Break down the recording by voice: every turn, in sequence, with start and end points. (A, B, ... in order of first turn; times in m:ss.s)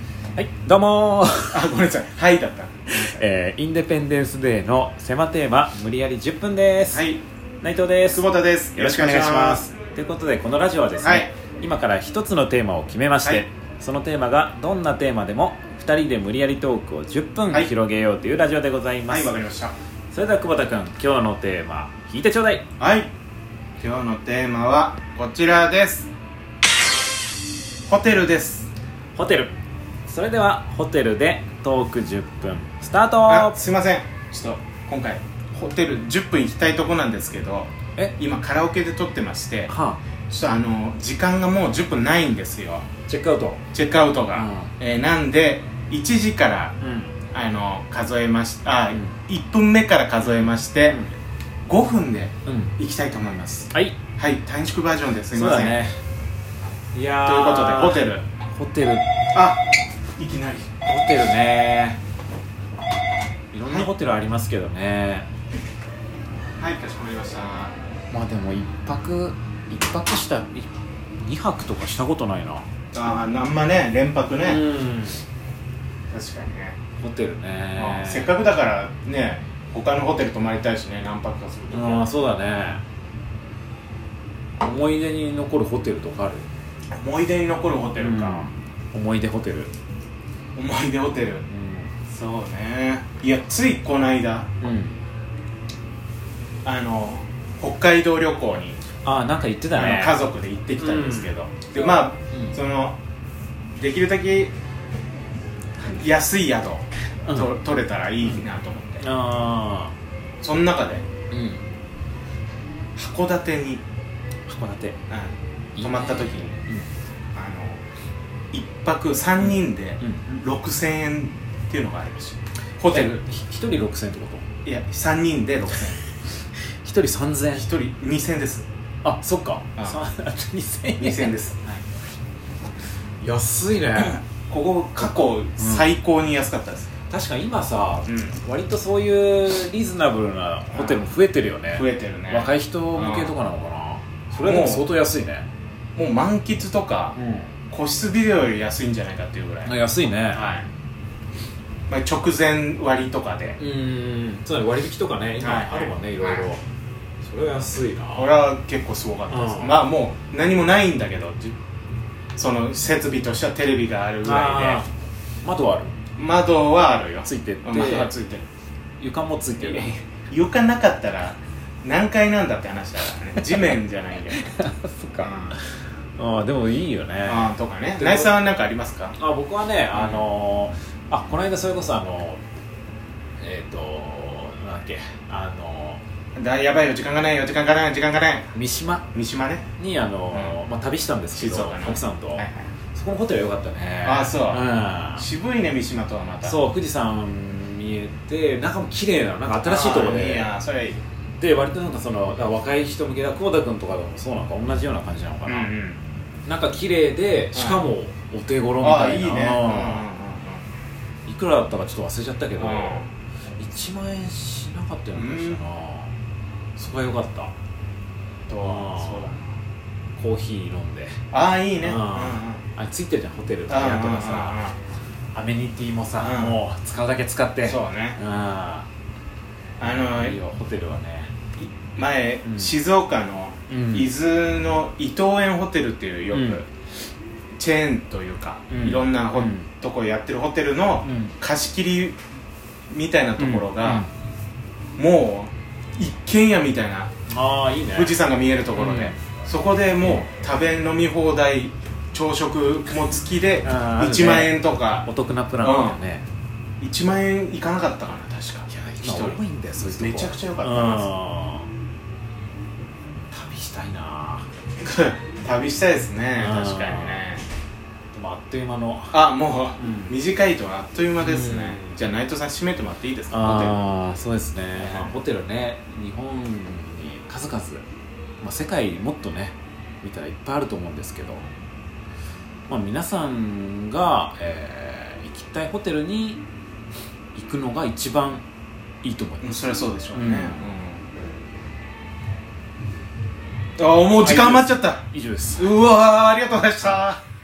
0:00.4-0:01.7 A
0:01.5-0:03.2 B
0:02.9-0:07.1 A
0:06.9-0:07.2 B
0:07.6-0:19.4 A
0:08.0-0:09.7 B
0:11.0-0:11.3 B
0:19.1-0:19.7 B
0:20.1-0:22.6 A
0:22.8-0:23.1 B
0:23.8-0:26.1 B
0:27.9-0:28.7 B
0:29.1-0:29.5 A
0:30.1-0:33.6 A
0:33.2-0:39.7 B
0:39.7-0:40.0 A
0:40.3-0:42.8 B
0:43.1-0:43.6 A
0:43.7-0:51.0 B
0:44.3-0:44.7 A
0:46.8-0:47.2 A
0:50.2-0:51.1 A
0:51.6-0:55.8 B
0:52.4-0:52.7 A
0:53.7-0:54.0 A
0:55.3-0:56.0 A
0:56.9-0:59.1 A
0:57.2-0:58.2 B
0:59.3-0:59.6 B
1:00.2-1:00.7 B
1:00.8-1:02.0 A
1:03.5-1:05.3 A
1:03.6-1:03.9 B
1:06.6-1:07.7 B
1:08.1-1:12.7 A
1:12.9-1:14.7 B
1:14.4-1:15.2 A
1:16.1-1:16.8 B
1:17.0-1:18.4 A
1:17.7-1:22.1 B
1:21.7-1:22.8 A
1:24.6-1:26.4 A
1:26.9-1:28.5 B
1:28.0-1:29.7 A
1:30.5-1:31.4 B
1:31.5-1:31.9 A
1:32.0-1:34.5 B
1:34.6-1:35.0 A
1:36.6-1:38.8 B
1:39.0-1:40.2 A
1:39.7-1:43.0 B
1:40.8-1:42.6 A
1:43.8-1:44.5 B
1:45.9-1:49.1 B
1:47.3-1:47.5 A
1:49.0-1:49.9 A
1:50.4-1:51.0 B
1:51.3-1:51.6 A
1:53.0-1:53.8 B
1:54.5-1:55.0 A
1:55.1-1:56.6 B
1:55.8-1:56.9 A
1:57.3-1:57.8 B
1:58.5-2:03.2 B
1:59.4-2:00.2 A
2:02.9-2:04.4 A
2:04.6-2:06.0 B
2:06.8-2:07.7 A
2:07.5-2:08.6 B
2:09.0-2:11.8 A
2:09.7-2:10.0 B
2:11.0-2:11.6 B
2:13.2-2:14.2 A
2:14.0-2:16.9 B
2:15.6-2:15.9 A
2:17.1-2:25.4 A
2:18.1-2:18.4 B
2:20.7-2:21.1 B
2:21.7-2:23.3 B
2:24.4-2:24.9 B
2:26.0-2:27.2 B
2:27.1-2:27.5 A
2:27.7-2:30.6 B
2:29.6-2:30.5 A
2:31.9-2:33.6 B
2:33.6-2:36.6 A
2:35.4-2:36.5 B
2:37.2-2:38.4 A
2:38.1-2:41.6 B
2:39.3-2:39.9 A
2:42.4-2:44.8 B
2:44.2-2:44.8 A
2:45.4-2:46.0 A
2:46.1-2:48.4 B
2:47.2-2:48.1 A
2:49.0-2:49.9 A
2:49.6-2:54.5 B
2:53.4-2:53.7 A
2:54.3-2:55.6 A
2:55.2-2:55.6 B
2:56.2-2:58.4 A
2:57.2-2:59.2 B
2:59.2-3:02.4 A
2:59.9-3:00.3 B
3:03.4-3:06.0 A
3:06.4-3:08.5 B
3:08.5-3:09.0 A
3:09.1-3:09.6 B
3:09.8-3:15.3 A
3:11.3-3:12.7 B
3:14.0-3:14.6 B
3:15.2-3:16.6 B
3:16.4-3:20.5 A
3:19.6-3:21.0 B
3:21.4-3:25.7 A
3:25.4-3:26.0 B
3:26.4-3:30.1 A
3:27.5-3:27.9 B
3:28.8-3:30.6 B
3:31.2-3:33.0 A
3:32.6-3:33.1 B
3:33.6-3:36.1 A
3:35.1-3:35.6 B
3:36.8-3:37.5 A
3:38.5-3:39.6 B
3:38.6-3:39.3 A
3:40.1-3:41.1 A
3:41.3-3:42.6 B
3:41.8-3:44.6 A
3:43.7-3:44.8 B
3:45.3-3:48.9 A
3:46.2-3:46.6 B
3:47.6-3:48.2 B
3:49.8-3:50.4 B
3:49.8-3:51.3 A
3:51.6-3:56.6 B
3:52.4-3:52.7 A
3:53.7-3:54.1 A
3:56.3-3:56.6 A
3:57.6-4:02.2 B
3:58.7-3:59.7 A
4:01.0-4:01.3 A
4:02.9-4:04.1 B
4:03.4-4:04.1 A
4:05.0-4:07.1 B
4:07.3-4:08.2 A
4:07.9-4:15.1 B
4:08.7-4:09.2 A
4:13.6-4:16.2 A
4:15.6-4:16.0 B
4:16.8-4:21.1 B
4:18.7-4:21.7 A
4:23.3-4:24.4 A
4:24.8-4:27.4 B
4:26.4-4:27.2 A
4:28.1-4:30.1 A
4:29.1-4:33.8 B
4:31.2-4:32.1 A
4:33.3-4:37.8 A
4:34.8-4:35.1 B
4:38.4-4:41.4 A
4:42.7-4:46.4 A
4:47.3-4:48.4 A
4:49.0-4:50.6 A
4:49.4-4:51.0 B
4:53.8-4:55.0 B
4:54.2-4:55.7 A
4:55.6-4:57.2 B